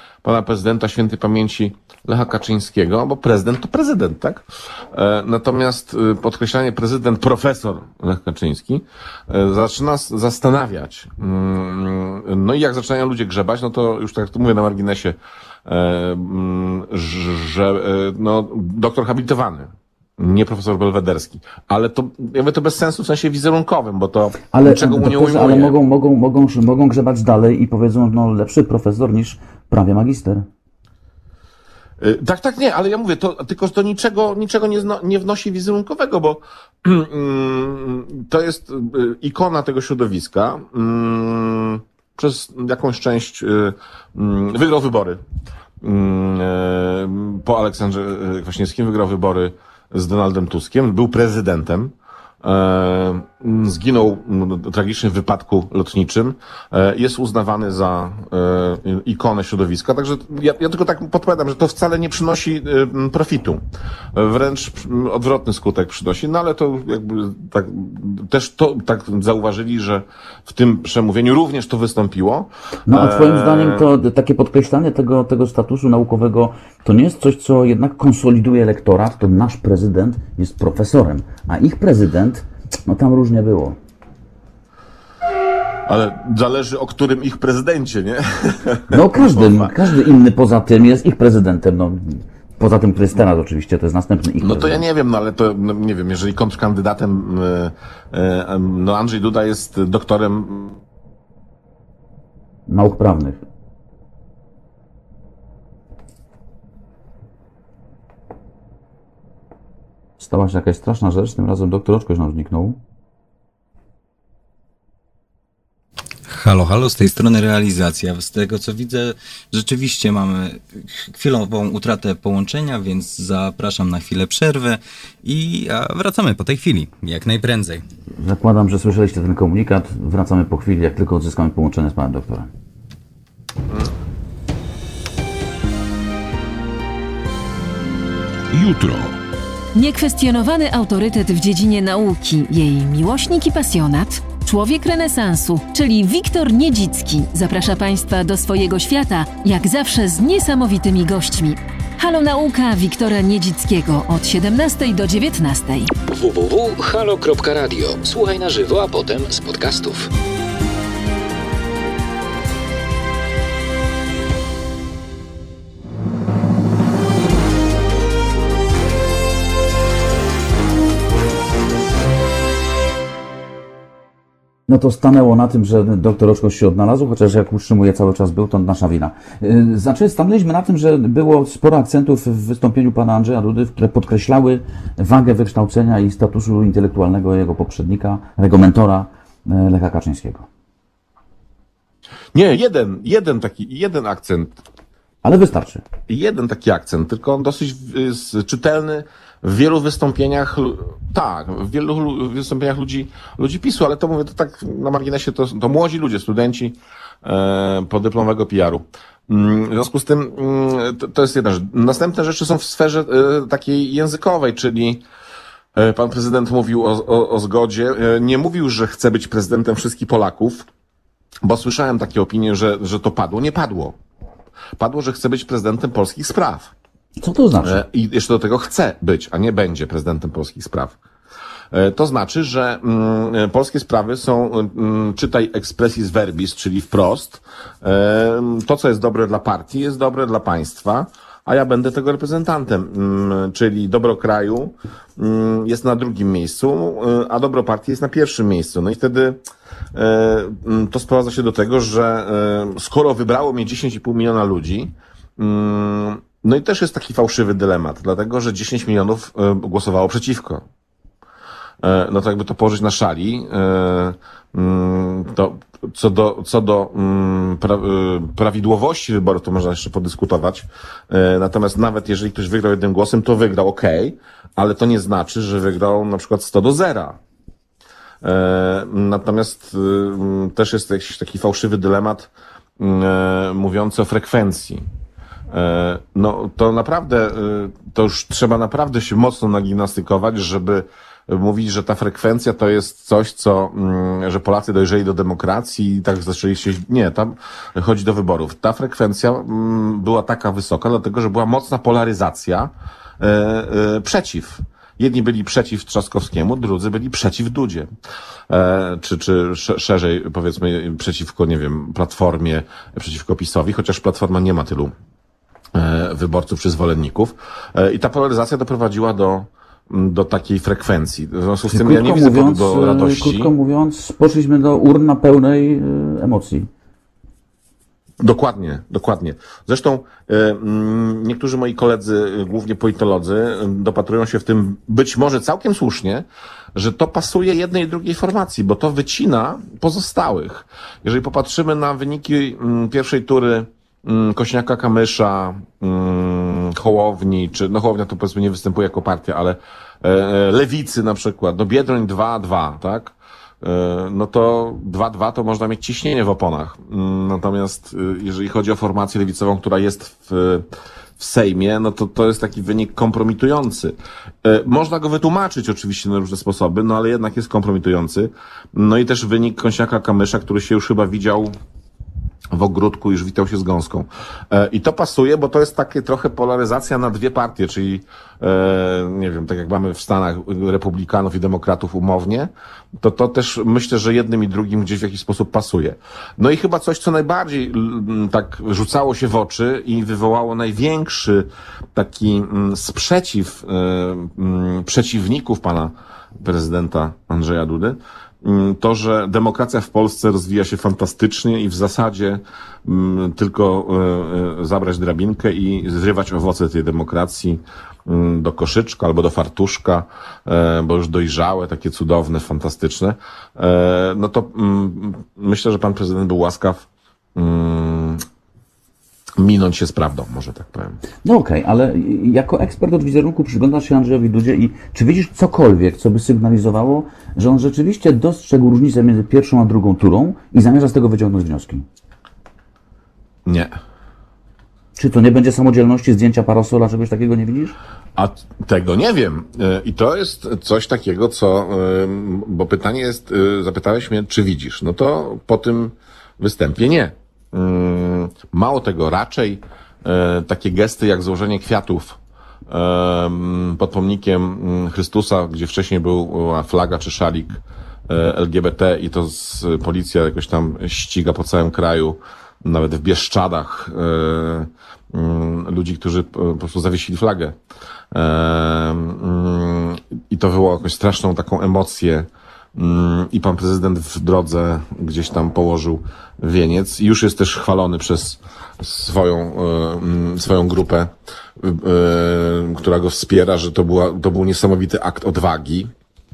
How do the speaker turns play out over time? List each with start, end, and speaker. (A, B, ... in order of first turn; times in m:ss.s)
0:00.2-0:25.7 A
0:24.5-0:30.4 B
0:32.0-0:45.2 A
0:45.8-1:03.6 A
1:04.1-1:13.8 A
1:12.9-1:23.8 B
1:25.9-1:29.7 A
1:28.9-1:34.8 B
1:34.4-1:40.8 A
1:42.7-1:43.4 B
1:50.2-1:52.8 B
1:56.3-2:07.8 C
2:08.2-2:12.5 B
2:18.5-2:19.1 D
2:19.7-2:35.9 E
2:36.1-2:40.1 D
2:54.7-3:10.5 B
3:12.3-3:14.6 A
3:15.2-3:15.8 B
3:16.1-3:35.0 A
3:35.7-3:40.6 A
3:41.4-3:44.0 A
3:44.8-3:46.7 A
3:47.2-3:47.8 B
3:47.6-3:51.0 A
3:51.7-4:09.4 A
4:09.9-4:20.6 A
4:21.8-4:37.2 A
4:38.2-4:44.8 A
4:45.5-5:07.9 A
5:08.5-5:14.9 A
5:15.7-5:23.5 A
5:21.6-5:26.7 B
5:28.2-6:00.6 A
6:01.2-6:11.5 A
6:12.5-6:58.2 A
6:59.4-7:01.0 A
7:01.2-7:11.8 B
7:13.4-7:13.8 A
7:15.0-7:17.8 B
7:18.2-7:47.6 A
7:48.1-8:05.9 A